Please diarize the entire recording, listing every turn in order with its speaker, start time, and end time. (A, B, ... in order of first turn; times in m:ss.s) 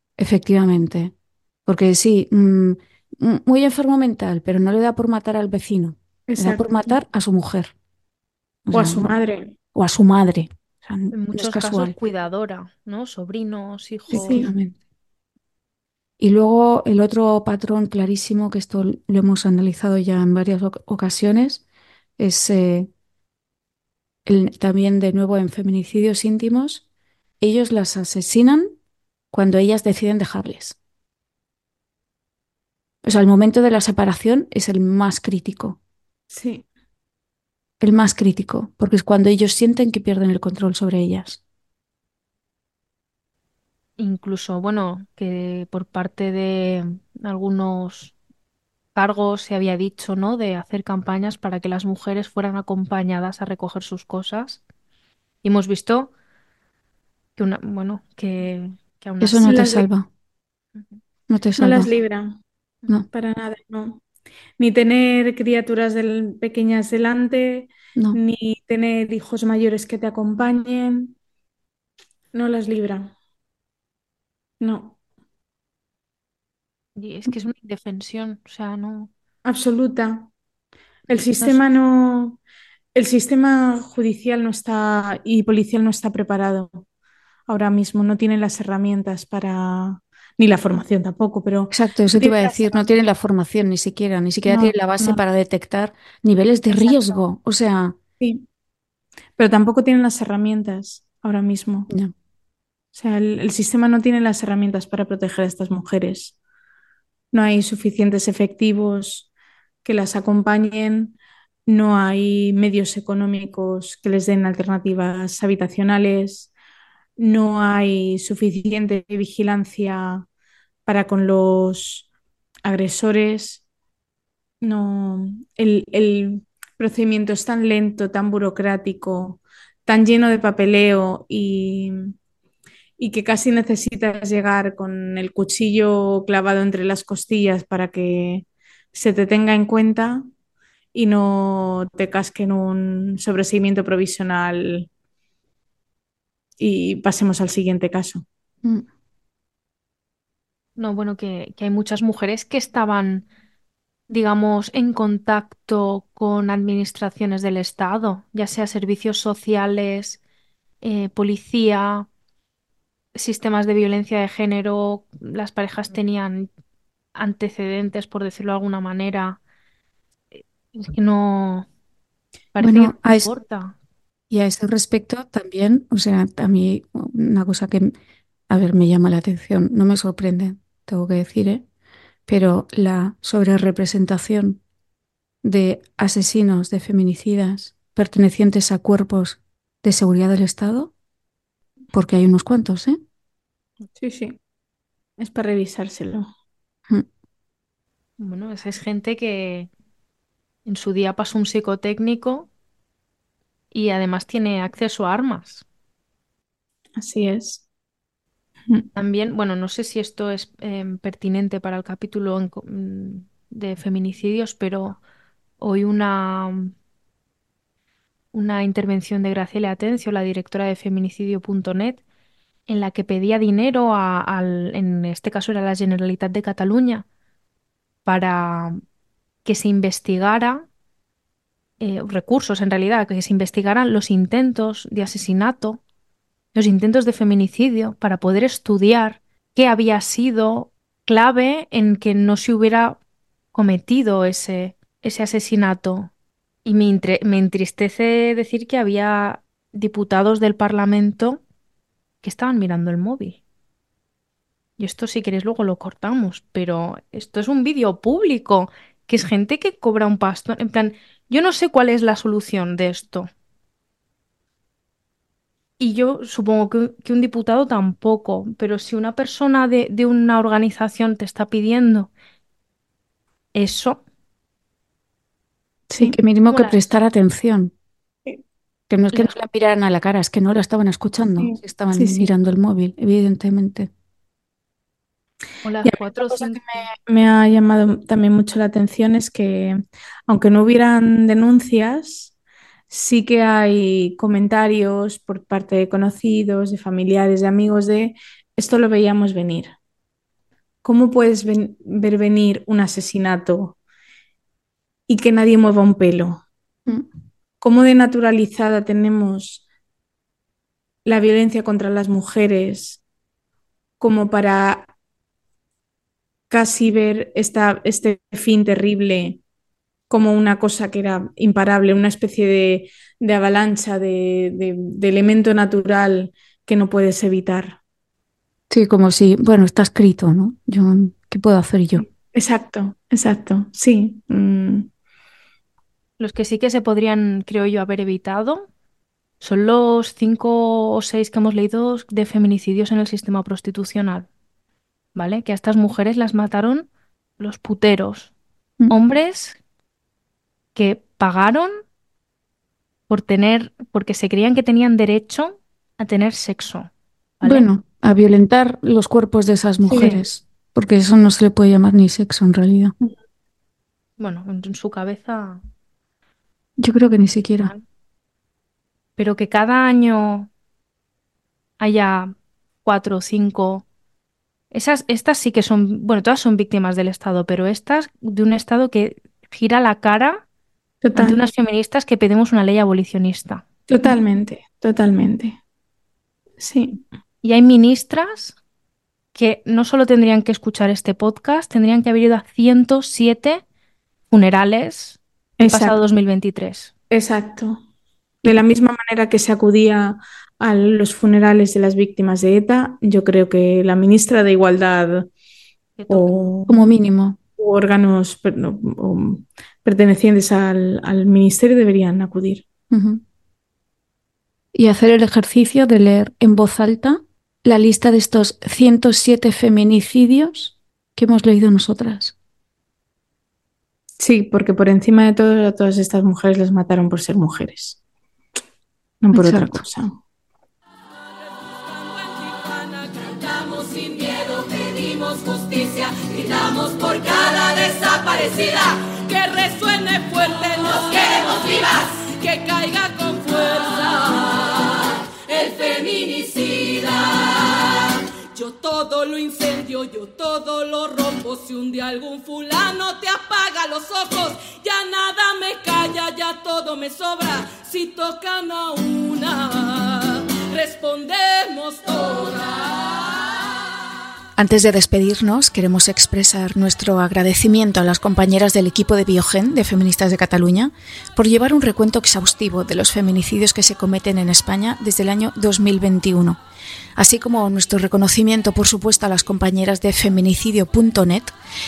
0:00.2-0:01.1 A
0:01.7-0:07.7 A
0:06.3-0:06.7 B
0:08.7-0:09.1 A
0:08.7-0:09.6 B
0:09.7-0:11.9 A
0:11.1-0:14.5 C
0:14.1-0:14.5 B
0:14.1-0:14.8 A
0:16.2-0:21.6 A
0:22.2-0:22.9 A
0:24.3-0:26.8 A
0:27.4-0:28.8 A
0:29.3-0:30.8 A
0:33.0-0:35.8 A
0:36.3-0:36.7 B
0:37.8-0:41.4 A
0:44.0-0:48.1 C
0:49.0-0:54.6 C
0:55.4-0:56.1 C
0:57.4-0:59.7 C
0:59.2-1:00.1 A
0:59.4-0:59.8 B
1:01.3-1:01.9 A
1:01.6-1:02.4 B
1:03.1-1:04.0 B
1:04.6-1:11.2 B
1:12.3-1:13.2 B
1:14.6-1:15.0 B
1:17.0-1:19.1 C
1:19.5-1:20.3 B
1:21.1-1:22.4 B
1:22.9-1:26.8 B
1:27.5-1:32.8 B
1:31.7-1:38.0 A
1:34.4-1:35.2 B
1:38.2-1:38.4 B
1:39.4-1:41.9 B
1:42.9-1:46.3 B
1:47.3-1:49.3 B
1:49.8-1:56.5 B
1:57.2-2:00.3 B
2:00.9-2:02.1 B
2:02.6-2:03.6 B
2:04.6-2:12.1 B
2:13.0-2:20.2 B
2:20.9-2:24.9 B
2:26.6-2:28.2 B
2:30.8-2:33.2 C
2:34.1-2:40.2 C
2:40.8-2:42.1 C
2:43.2-2:46.5 C
2:47.2-2:49.4 C
2:50.3-2:51.7 C
2:52.5-2:53.8 C
2:52.6-2:53.4 A
2:54.3-2:57.9 A
2:58.5-3:01.6 A
3:02.3-3:04.6 A
3:05.4-3:10.9 A
3:11.9-3:13.0 A
3:13.9-3:14.4 B
3:15.2-3:16.3 B
3:18.2-3:19.7 C
3:20.7-3:22.5 C
3:23.7-3:25.6 C
3:27.0-3:27.6 B
3:29.0-3:35.0 C
3:35.6-3:36.7 C
3:38.3-3:42.0 C
3:42.7-3:47.0 C
3:48.0-3:48.8 C
3:49.4-3:50.7 C
3:51.8-3:55.8 C
3:56.5-4:03.0 C
4:03.5-4:06.1 C
4:06.6-4:11.4 C
4:12.2-4:13.4 C
4:14.8-4:23.3 C
4:25.8-4:32.1 C
4:33.5-4:34.0 C
4:35.9-4:36.2 B
4:36.0-4:37.7 A
4:36.5-4:36.8 C
4:38.9-4:43.9 A
4:41.4-4:42.3 B
4:45.6-4:46.8 C
4:45.8-4:52.3 B
4:52.9-4:59.8 B
5:00.8-5:03.8 B
5:05.1-5:06.4 B
5:07.6-5:09.6 B
5:11.0-5:13.0 B
5:14.0-5:14.9 B
5:16.5-5:19.4 B
5:20.1-5:27.8 B
5:28.7-5:32.1 A
5:32.1-5:34.9 B
5:36.2-5:38.7 C
5:39.4-5:44.3 C
5:45.2-5:48.3 C
5:48.9-5:49.6 C
5:50.8-5:51.7 C
5:53.1-5:56.9 C
5:57.4-5:57.7 C
5:57.4-6:02.9 A
5:59.8-6:00.2 B
5:59.9-6:00.2 C
6:04.2-6:05.6 C
6:06.8-6:07.7 A
6:09.2-6:10.5 C
6:11.8-6:13.9 C
6:14.7-6:20.4 C
6:21.0-6:21.4 B
6:21.2-6:24.1 C
6:23.9-6:25.6 B
6:26.6-6:27.0 B
6:27.4-6:28.6 C
6:29.4-6:33.6 C
6:34.3-6:36.9 C
6:35.6-6:36.0 B
6:37.1-6:37.8 B
6:38.4-6:45.3 B
6:46.0-6:46.4 C
6:46.1-6:46.8 B
6:46.7-6:47.4 A
6:47.6-6:52.6 B
6:52.9-6:53.2 A
6:54.7-7:02.4 A
7:04.2-7:08.0 B
7:09.2-7:10.2 B
7:09.3-7:09.8 A
7:11.4-7:43.3 D
7:44.6-7:56.6 A
7:57.2-8:01.6 A